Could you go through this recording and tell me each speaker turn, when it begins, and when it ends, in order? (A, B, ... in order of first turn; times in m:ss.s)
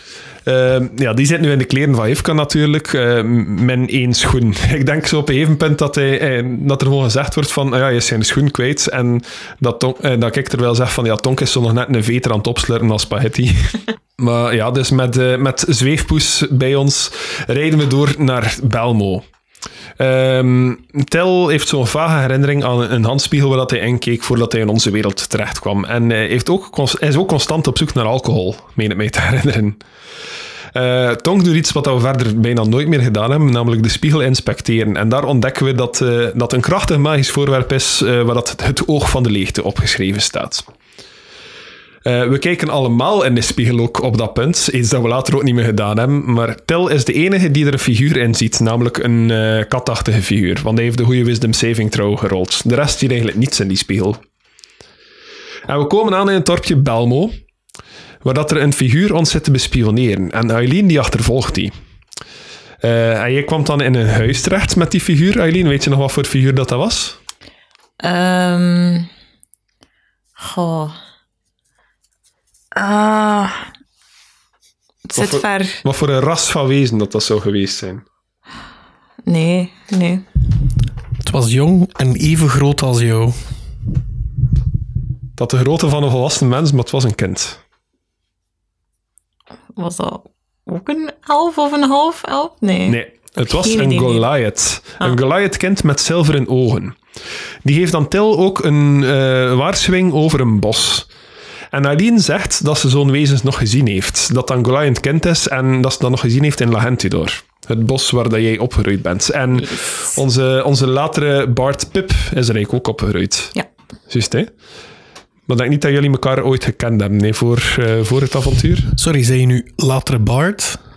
0:00.5-0:19.2 A
0:20.0-0:29.8 A
0:30.7-0:40.7 A
0:42.0-0:54.2 A
0:55.7-0:57.3 A
0:58.2-1:01.7 A
1:02.8-1:07.2 A
1:08.0-1:09.1 B
1:10.4-1:11.0 B
1:12.8-1:13.7 B
1:15.1-1:15.8 B
1:15.2-1:18.0 A
1:19.3-1:20.2 B
1:21.2-1:23.4 C
1:25.4-1:27.6 A
1:29.8-1:34.3 B
1:32.9-1:37.0 A
1:37.6-1:41.1 A
1:41.7-1:53.6 A
1:54.1-1:54.5 A
1:55.5-1:58.9 A
1:59.0-2:00.8 C